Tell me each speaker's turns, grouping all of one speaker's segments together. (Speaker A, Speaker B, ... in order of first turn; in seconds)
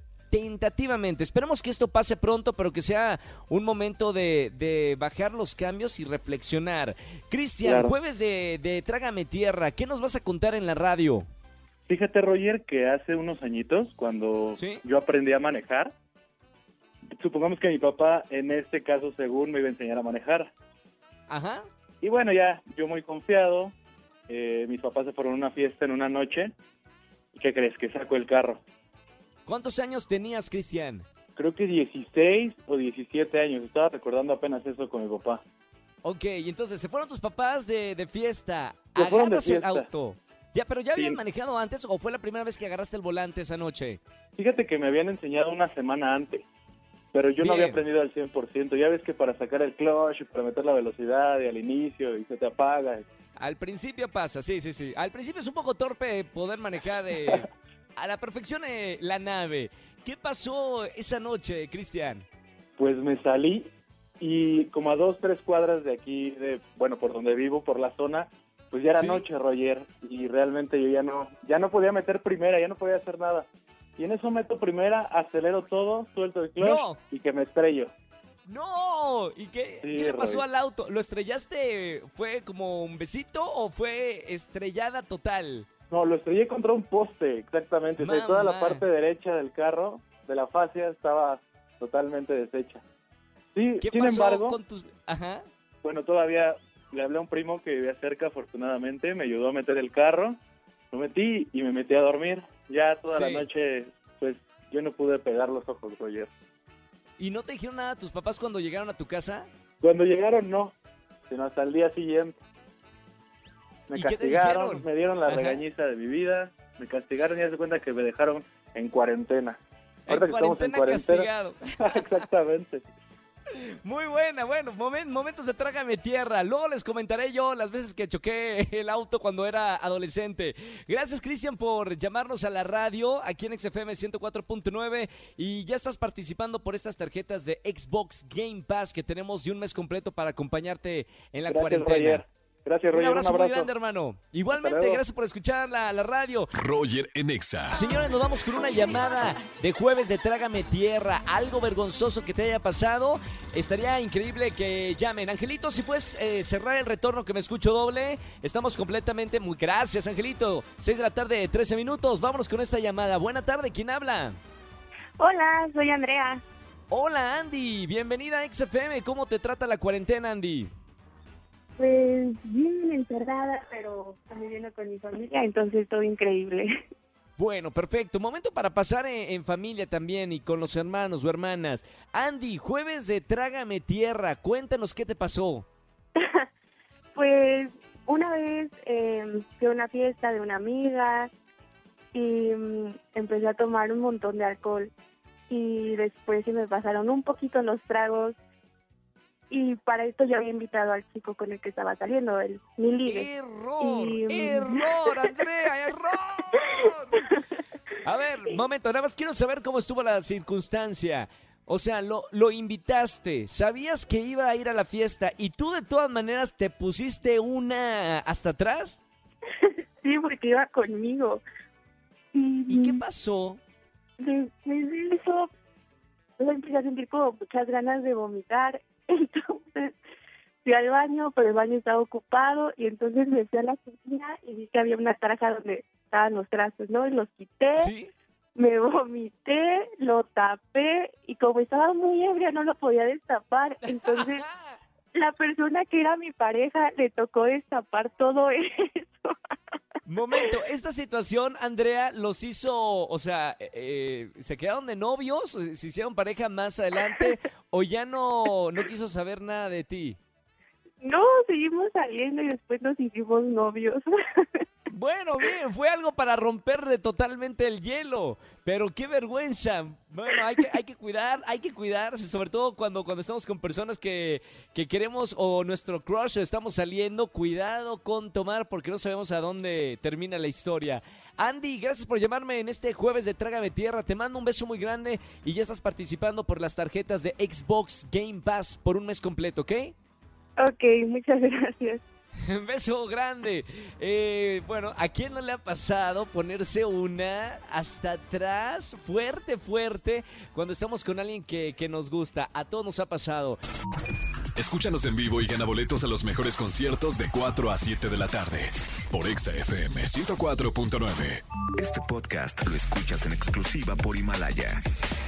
Speaker A: 0.3-11.3, 14.6-14.8, 21.3-21.6, 29.4-31.0, 36.0-44.0, 47.4-47.8, 53.4-62.3, 69.0-69.2, 76.6-77.0, 78.5-85.7, 88.0-88.8, 93.8-95.4, 103.1-103.5, 107.2-109.5, 114.0-115.6, 120.1-122.2, 123.5-142.2, 142.9-146.5, 147.7-164.4, 166.9-170.7, 177.4-185.7, 203.1-207.3, 208.0-219.0, 222.7-223.6, 237.8-238.1, 243.9-244.8, 250.1-260.2, 264.9-289.9, 292.4-303.6
Speaker B: 7.6-7.9, 11.9-15.9, 17.2-20.5, 22.0-23.7, 24.3-26.5, 27.3-28.6, 31.3-35.4, 39.0-39.9, 44.4-46.5, 47.1-53.0, 62.8-77.9, 79.8-80.4, 85.9-92.8, 93.5-94.6, 95.8-100.4, 100.9-106.3, 109.8-110.7, 111.3-112.3, 113.9-119.6, 120.1-121.3, 121.8-122.8, 141.5-143.7, 144.5-145.0
Speaker C: 146.5-147.8, 304.6-311.4
Speaker D: 165.2-166.4, 171.8-176.7, 186.2-186.4, 187.2-191.3, 192.1-194.9, 195.5-198.4, 199.5-203.3, 203.8-205.3, 219.6-221.4, 222.3-223.0, 224.2-225.5, 226.4-229.9, 230.6-237.9, 238.5-244.4, 245.1-249.3, 261.0-264.6, 290.6-292.0
Speaker E: 311.8-314.8